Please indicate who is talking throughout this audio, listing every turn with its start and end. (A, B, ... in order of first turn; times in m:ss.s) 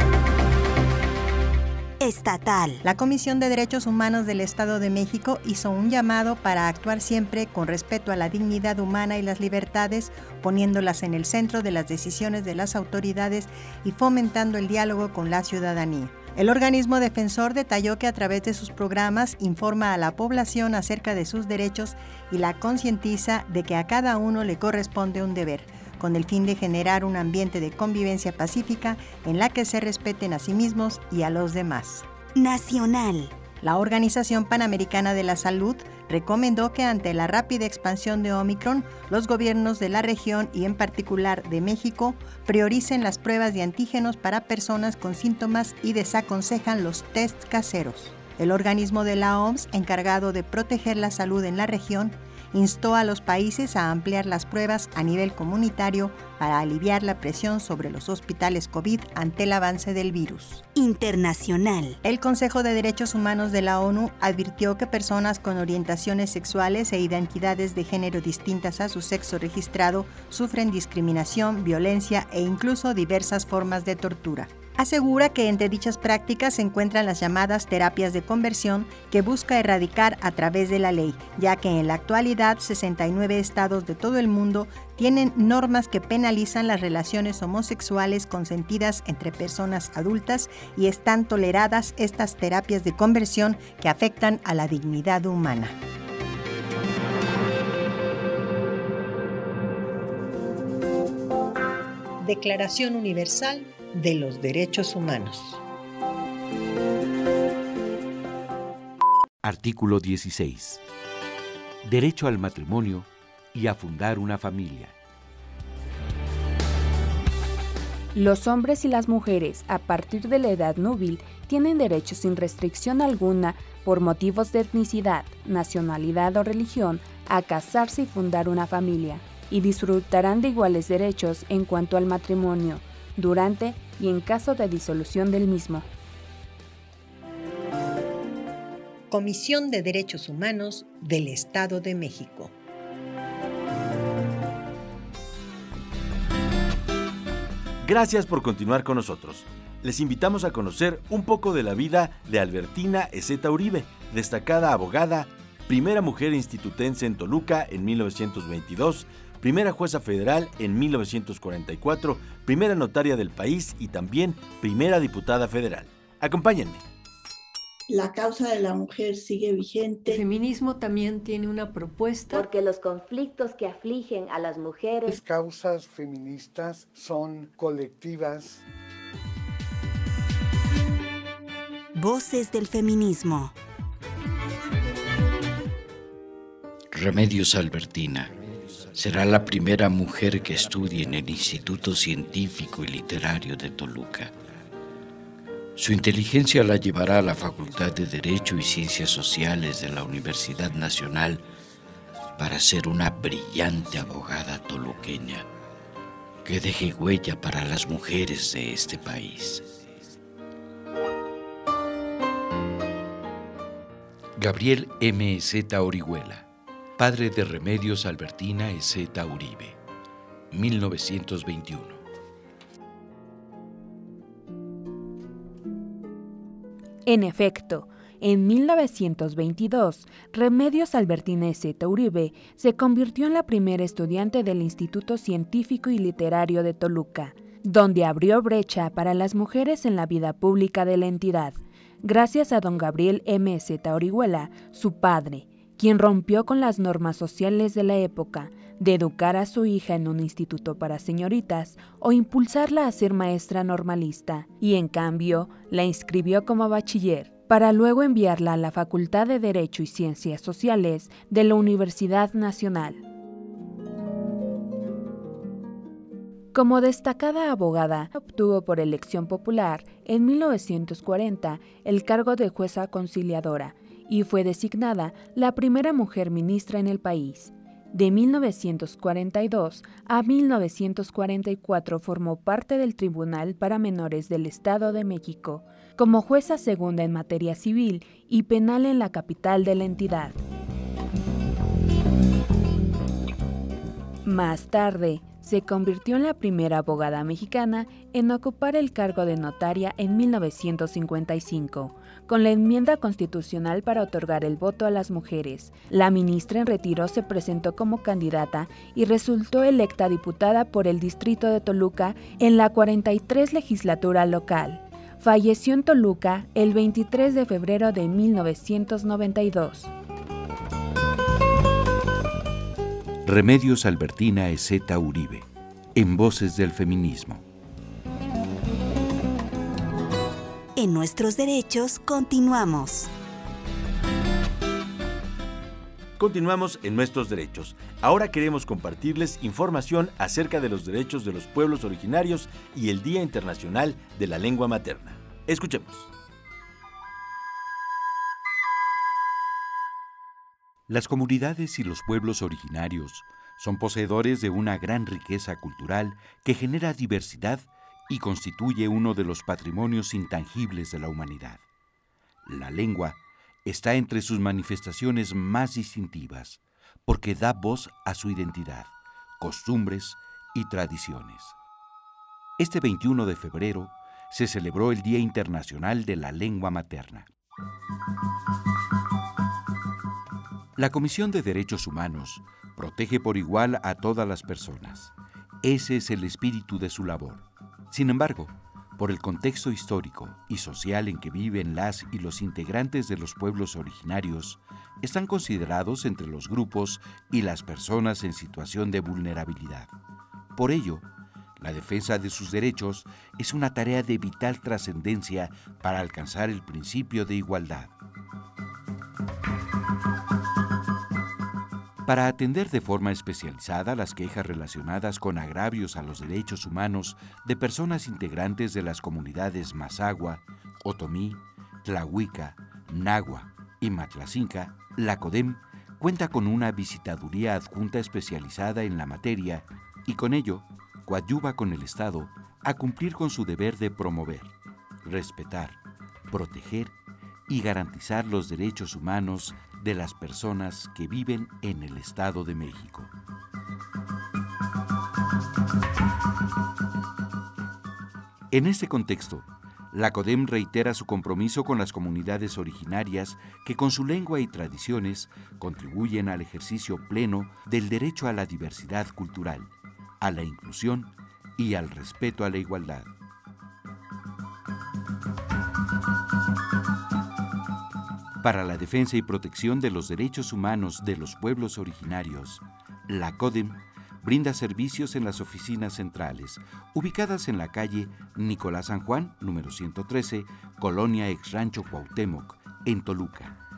0:02.0-0:02.8 A
0:02.8-0:32.1 B
0:32.4-0:33.3 A
0:33.6-1:00.6 B
1:00.8-1:02.0 A
1:02.0-1:35.8 B
1:42.2-1:45.6 B
1:49.4-1:50.8 C
1:51.8-1:55.0 C
1:58.2-2:15.9 D
2:19.1-2:22.5 B
2:27.8-2:46.8 E
2:47.9-2:50.2 F
2:50.1-2:52.5 G
2:52.3-2:55.2 H
2:55.2-2:58.6 I
3:01.9-3:03.5 A
3:06.9-3:08.4 J
3:08.9-3:14.3 J
3:15.8-3:21.4 J
3:22.4-3:25.5 J
3:26.4-3:29.7 J
3:34.4-3:36.5 C
3:37.0-3:39.8 C
3:40.5-3:42.0 C
3:47.1-4:23.0 D
4:26.5-4:50.4 D
4:54.2-5:19.9 D
5:23.2-5:27.4 C
5:30.8-5:33.1 A
5:36.2-5:46.1 E
5:50.9-6:01.6 C
6:02.4-6:11.6 C
6:12.6-6:17.3 C
6:20.8-6:39.9 C
6:40.5-6:41.1 C
6:41.6-6:47.9 C
6:52.0-7:14.5 C
7:15.0-7:15.8 C
7:16.3-7:16.9 C
7:17.5-7:23.1 C
7:28.5-7:43.1 C
7:48.4-8:03.6 C